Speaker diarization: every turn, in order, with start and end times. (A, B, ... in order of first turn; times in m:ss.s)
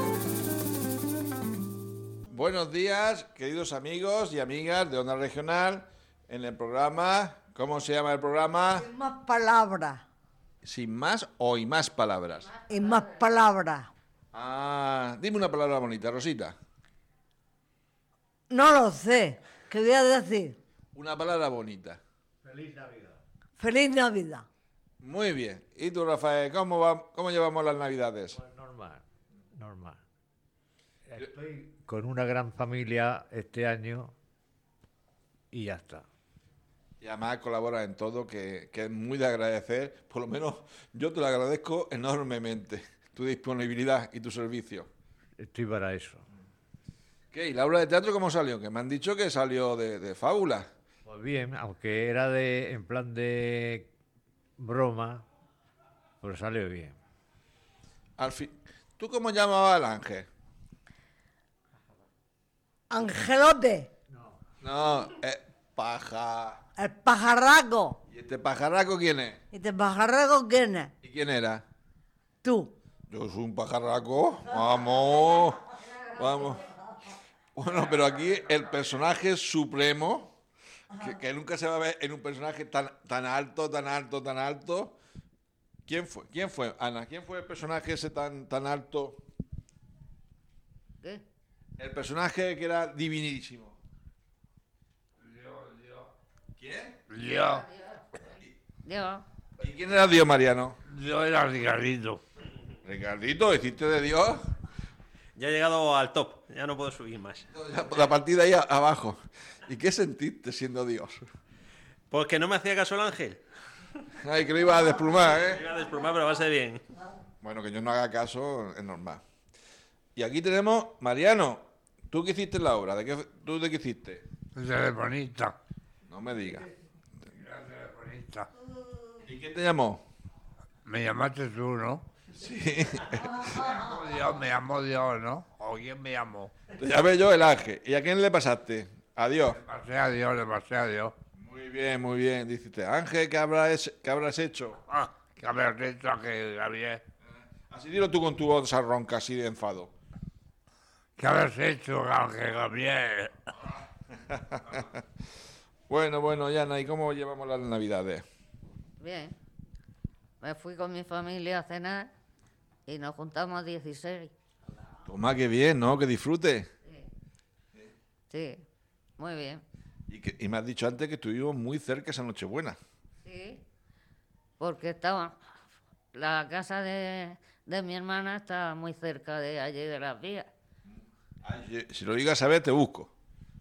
0:02.3-0:08.9 A
0:08.7-0:10.0 B
0:10.6-0:12.5 A
0:12.7-0:13.9 B
0:14.3-0:16.5 A
0:18.5-0:20.6 B
0:20.9-0:22.0 A
0:22.4-0:23.2 C
0:23.6-0:24.4 B
0:25.0-0:28.4 A
0:28.3-0:29.0 C
0:29.5-0:30.0 C
0:31.0-0:34.1 C
0:35.5-0:36.0 C
0:37.0-0:44.9 A
0:45.4-0:46.2 C
0:47.3-0:50.7 A
0:51.0-0:53.9 C
0:54.6-0:55.2 C
0:56.2-0:57.0 C
0:58.2-1:00.3 A
1:02.9-1:03.9 B
1:04.6-1:06.6 A
1:06.8-1:08.0 B
1:08.1-1:09.4 A
1:09.5-1:10.9 B
1:11.0-1:11.6 A
1:12.4-1:12.7 B
1:13.1-1:16.6 A
1:17.5-1:20.3 A
1:21.0-1:25.0 A
1:25.9-1:29.2 A
1:31.8-1:33.8 A
1:35.2-1:36.1 D
1:36.6-1:36.9 A
1:37.1-1:37.7 D
1:37.5-1:37.9 E
1:38.8-1:39.2 E
1:39.6-1:40.8 A
1:40.9-1:42.2 D
1:42.8-1:44.5 A
1:45.4-1:47.4 F
1:47.5-1:51.3 A
1:52.1-1:53.4 F
1:54.2-1:55.6 A
1:55.0-1:56.8 F
1:57.4-1:59.2 A
2:00.2-2:04.2 A
2:04.6-2:05.6 D
2:06.1-2:06.7 A
2:07.4-2:08.5 D
2:09.2-2:10.0 A
2:10.8-2:12.1 D
2:12.3-2:13.6 A
2:13.5-2:16.5 D
2:16.7-2:19.6 A
2:19.5-2:21.1 D
2:21.3-2:24.8 A
2:24.9-2:27.0 D
2:27.2-2:29.9 A
2:31.2-2:33.5 D
2:34.3-2:34.9 A
2:35.9-2:38.2 A
2:39.0-2:39.4 E
2:40.4-2:42.1 E
2:42.9-2:44.3 E
2:45.0-2:46.7 A
2:48.3-2:48.6 E
2:49.2-2:49.6 E
2:50.1-2:52.8 A
2:53.2-2:53.6 E
2:54.6-2:55.3 E
2:56.1-3:00.5 E
3:00.8-3:03.1 A